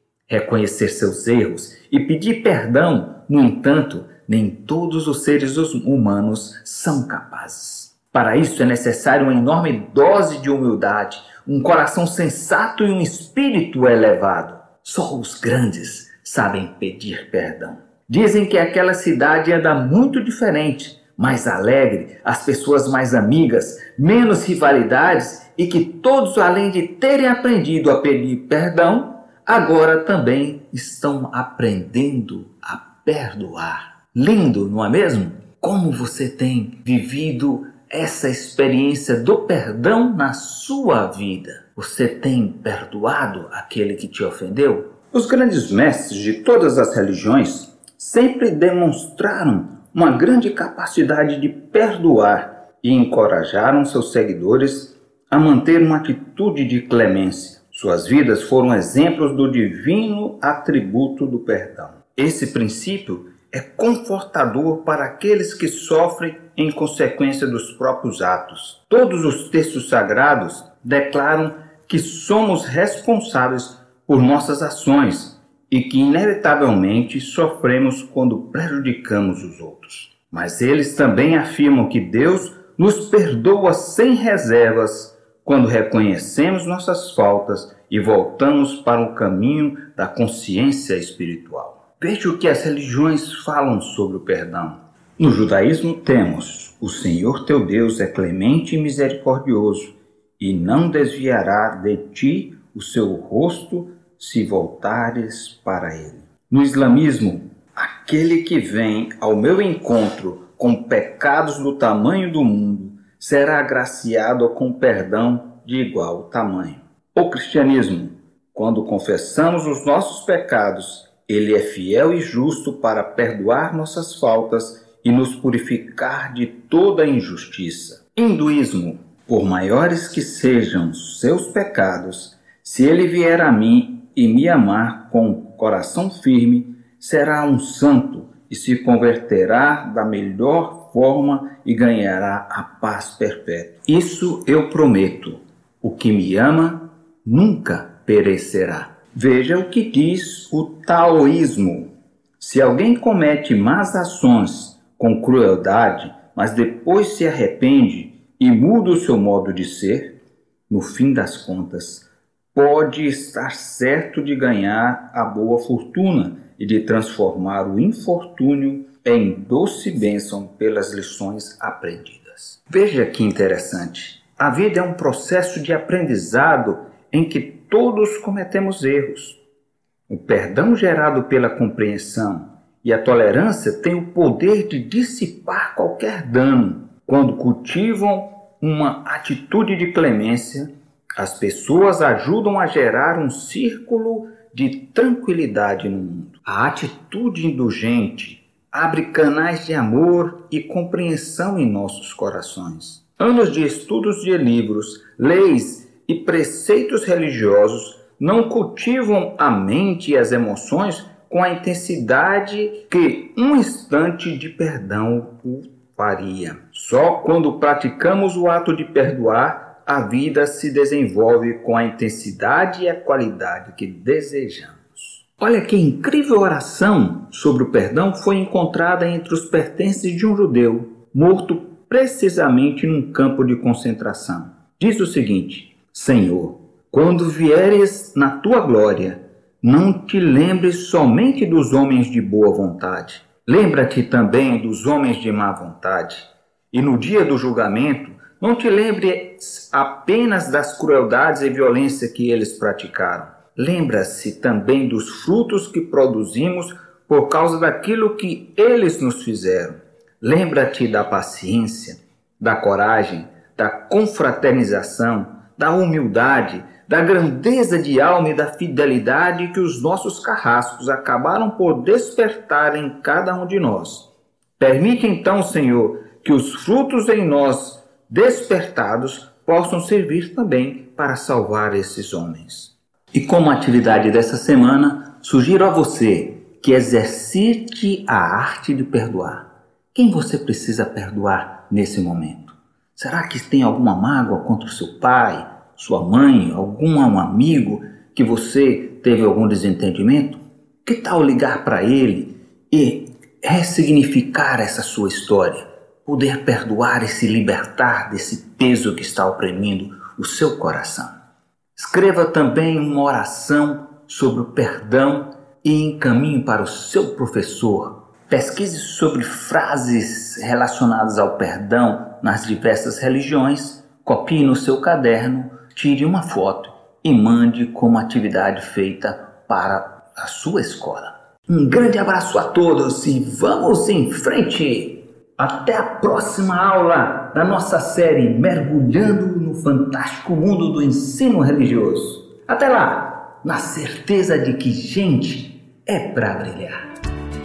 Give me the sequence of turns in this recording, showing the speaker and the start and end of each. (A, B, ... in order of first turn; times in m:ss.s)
0:00.3-2:40.2 A
2:40.7-2:59.4 A
3:00.1-4:34.1 A
4:34.6-5:11.1 A
5:11.8-5:46.8 A